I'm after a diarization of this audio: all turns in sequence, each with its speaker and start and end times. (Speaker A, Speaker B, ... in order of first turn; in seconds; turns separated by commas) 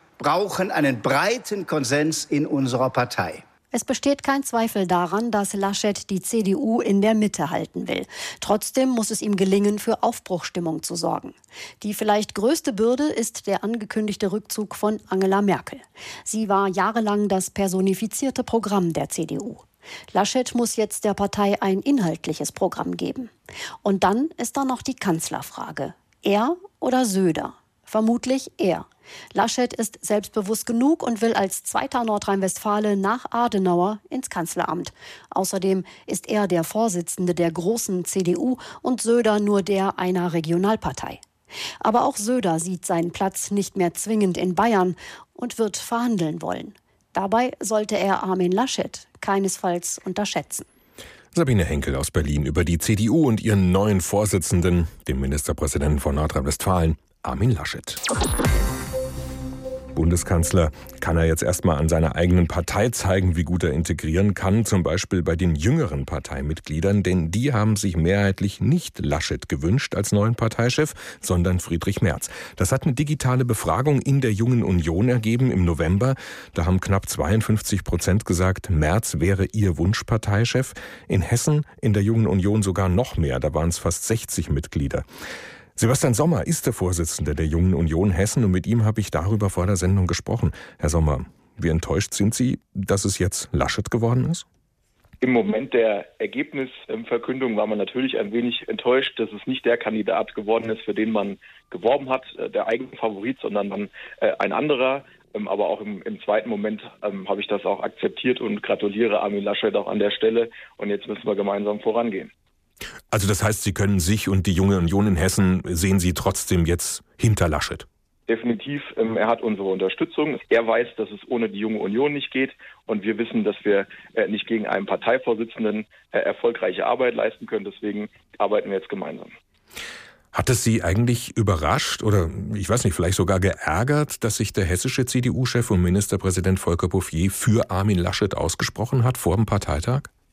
Speaker A: 0.2-3.4, Speaker B: 3.7-41.2, Speaker B: 41.8-50.7, Speaker C: 51.3-58.0, Speaker C: 60.0-85.1, Speaker C: 85.8-94.5, Speaker D: 95.2-112.3, Speaker C: 113.1-117.9, Speaker D: 118.3-129.3, Speaker C: 130.3-140.1